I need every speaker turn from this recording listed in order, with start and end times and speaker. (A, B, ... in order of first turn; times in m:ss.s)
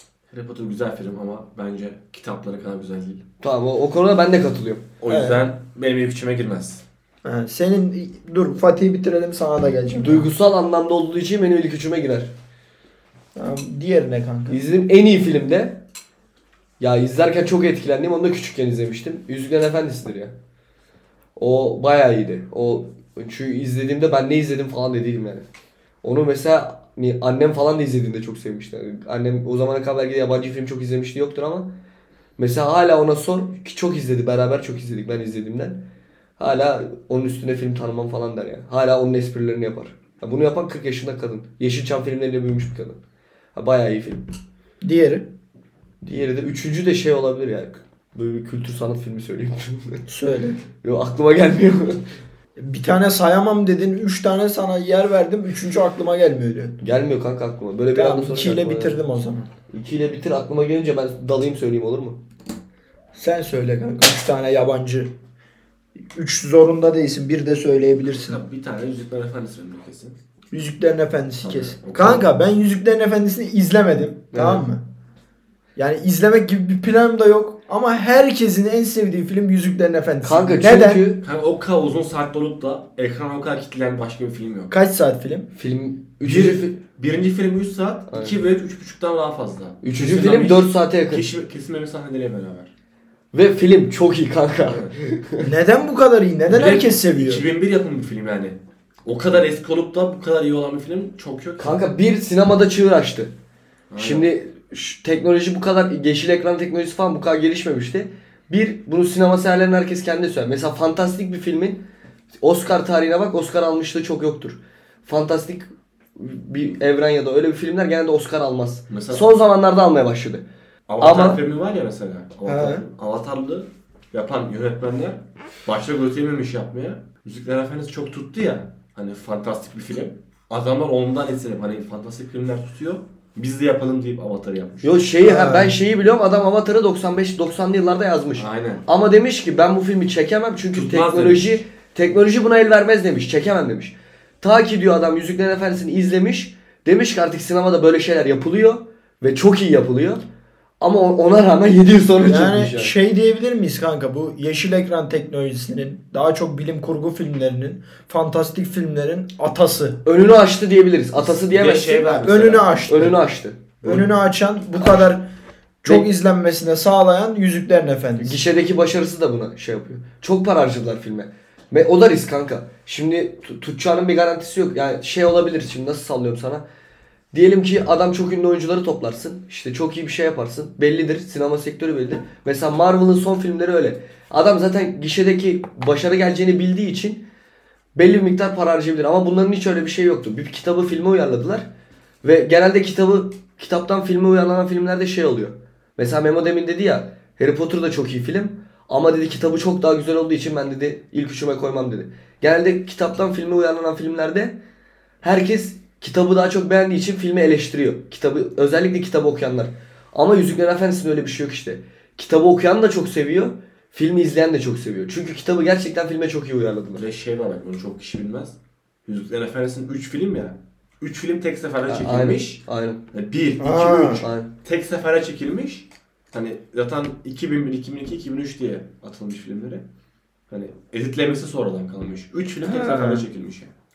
0:00.3-0:03.2 A
0:03.4-0:04.9 B
0:05.0-0:06.8 A
0:05.1-0:05.4 C
0:07.2-0:10.3 C
0:10.0-0:12.3 B
0:13.4-0:14.6 C
0:14.5-0:15.8 B
0:16.8-0:20.4 B
0:21.4-0:25.4 B
0:26.0-0:31.7 B
0:32.4-0:35.8 B
0:36.4-0:43.0 B
0:43.6-0:44.3 B
0:44.8-0:45.3 C
0:46.0-0:50.1 B
0:50.1-0:50.6 C
0:50.8-0:52.0 B
0:52.6-0:56.8 C
0:56.8-0:59.0 B
0:58.0-0:59.5 C
0:59.7-1:02.2 B
1:03.2-1:05.1 C
1:06.1-1:08.4 C
1:08.0-1:10.2 A
1:10.5-1:14.8 C
1:11.4-1:12.2 A
1:14.3-1:14.6 B
1:15.8-1:21.1 C
1:20.2-1:21.2 B
1:21.2-1:24.7 A
1:24.7-1:25.5 C
1:25.6-1:26.8 B
1:26.2-1:32.7 A
1:28.1-1:28.4 B
1:29.8-1:31.2 B
1:33.3-1:35.5 B
1:35.4-1:37.4 C
1:36.5-1:41.8 A
1:41.6-1:43.3 B
1:43.9-1:44.3 A
1:44.0-1:51.8 B
1:52.4-2:00.4 B
1:58.9-1:59.3 A
2:00.9-2:15.0 A
2:01.0-2:01.4 B
2:02.5-2:02.8 C
2:14.8-2:30.2 B
2:15.2-2:15.8 C
2:18.4-2:18.8 A
2:20.7-2:21.6 A
2:30.8-2:32.9 B
2:32.2-2:40.0 C
2:40.0-2:43.8 B
2:41.2-2:42.8 A
2:42.2-2:43.2 C
2:43.8-2:45.3 C
2:45.8-2:48.4 C
2:48.2-2:56.6 B
2:57.3-3:07.2 B
3:08.0-3:11.7 B
3:12.2-3:24.6 B
3:25.2-3:37.0 B
3:37.0-3:42.6 A
3:41.9-3:43.0 B
3:43.1-3:49.9 A
3:43.6-3:44.2 C
3:44.2-3:44.5 B
3:50.5-3:53.7 A
3:52.6-3:53.2 C